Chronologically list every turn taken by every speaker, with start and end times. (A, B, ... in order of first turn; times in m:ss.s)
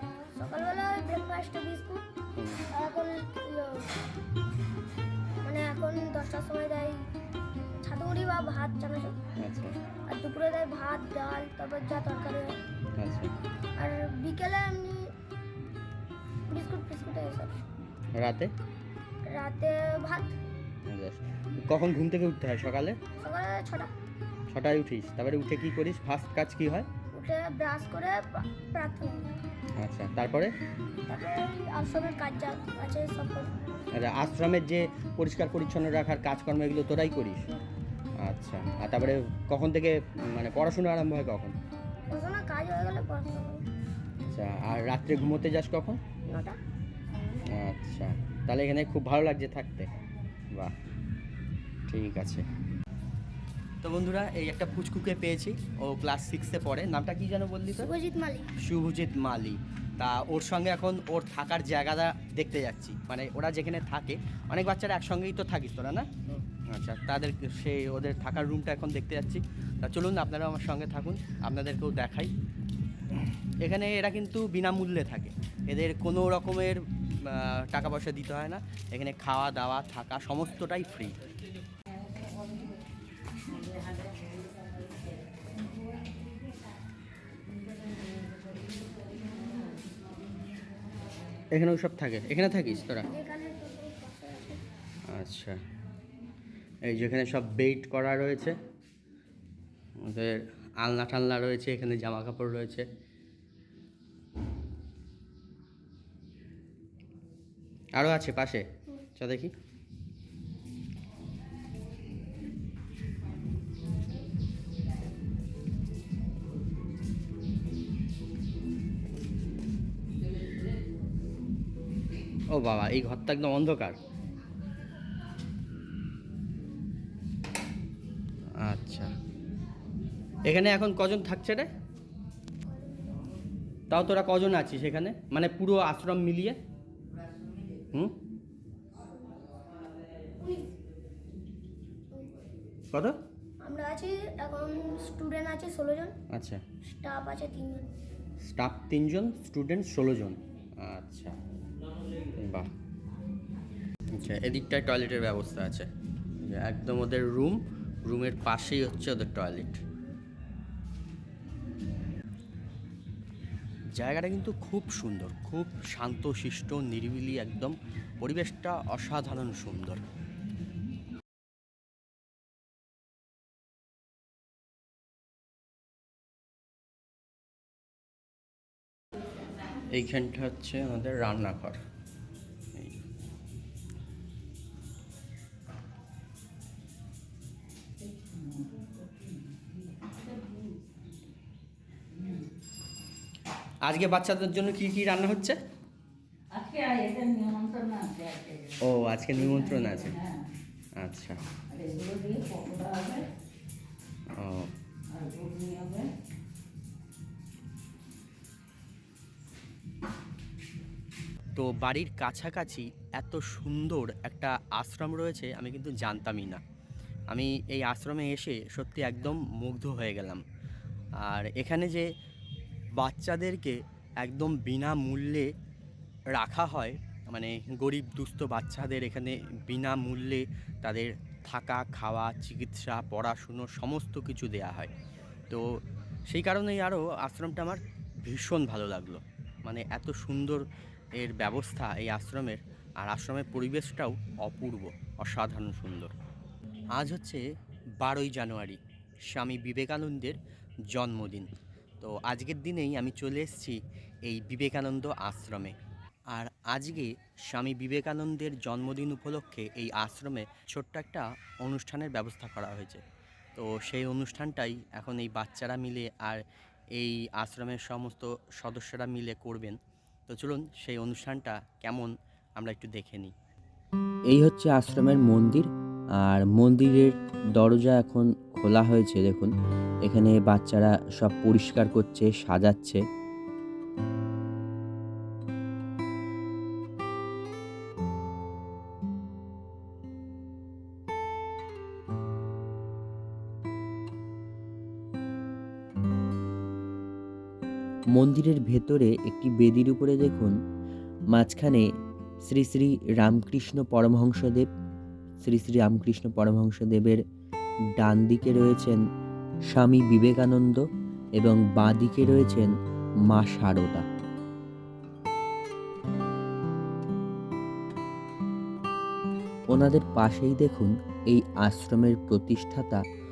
0:00.3-0:02.0 A
0:02.4-0:02.6 B
0:02.7-0:03.9 A
0:05.4-0:07.0 A
0:07.8-0:09.2 A
0:09.4-0:09.7 B
0:10.1-0:12.6 A
0:13.0-0:13.3 B
0:13.8-0:15.1 A
0:16.5-0:17.6 A
0:18.1-0:18.5 B
0:19.2-0:20.4 A
0:20.9-0:23.0 B
0:23.2-0:23.9 A
0:24.5-0:26.9 B
0:27.1-0:29.3 A
0:29.8-0:30.5 B
0:31.1-0:33.5 A
0:33.9-0:37.5 B
0:38.2-0:41.5 B
0:42.1-0:43.6 A
0:44.3-0:46.0 B
0:46.3-0:46.6 A
0:47.5-0:49.9 B
0:51.9-0:52.4 B
0:53.8-0:57.9 B
0:57.8-0:58.5 A
0:58.6-1:06.1 B
1:06.7-1:12.3 B
1:13.6-1:21.2 B
1:21.9-1:22.8 C
1:23.4-1:25.9 C
1:28.0-1:29.9 C
1:31.5-1:33.1 B
1:33.0-1:34.6 A
1:35.1-1:35.6 B
1:36.8-1:38.6 B
1:40.0-1:42.9 B
1:47.9-1:49.5 B
2:02.5-2:04.0 B
2:08.6-2:09.1 B
2:10.5-2:11.7 B
2:13.9-2:16.6 B
2:20.4-2:20.7 A
2:22.9-2:23.2 B
2:23.6-2:26.1 A
2:26.3-2:26.6 B
2:26.9-2:27.9 A
2:28.4-2:31.4 B
2:32.4-2:32.7 B
2:34.1-2:35.9 B
2:36.4-2:39.8 B
2:43.9-2:50.0 B
2:59.9-3:01.8 B
3:08.0-3:11.1 C
3:12.1-3:12.5 C
3:13.8-3:15.6 B
3:16.5-3:20.4 C
3:18.8-3:20.1 B
3:21.0-3:21.4 B
3:21.7-3:23.2 C
3:24.3-3:24.7 B
3:25.1-3:26.1 C
3:31.5-3:36.6 B
3:37.3-3:40.4 B
3:41.2-3:42.1 B
3:43.0-3:45.5 B
3:46.3-3:54.9 B
3:55.5-4:00.6 B
4:01.2-4:06.1 B
4:06.9-4:07.4 B
4:08.0-4:10.4 B
4:10.9-4:15.8 B
4:16.3-4:23.0 B
4:23.5-4:33.3 B
4:34.3-4:39.5 D
4:40.0-4:43.0 D
4:58.1-5:00.5 D
5:01.3-5:01.9 D
5:02.4-5:04.7 D
5:05.4-5:07.2 D
5:08.0-5:09.0 D
5:09.7-5:10.8 D
5:11.4-5:12.7 D
5:13.3-5:14.0 D
5:19.7-5:23.0 D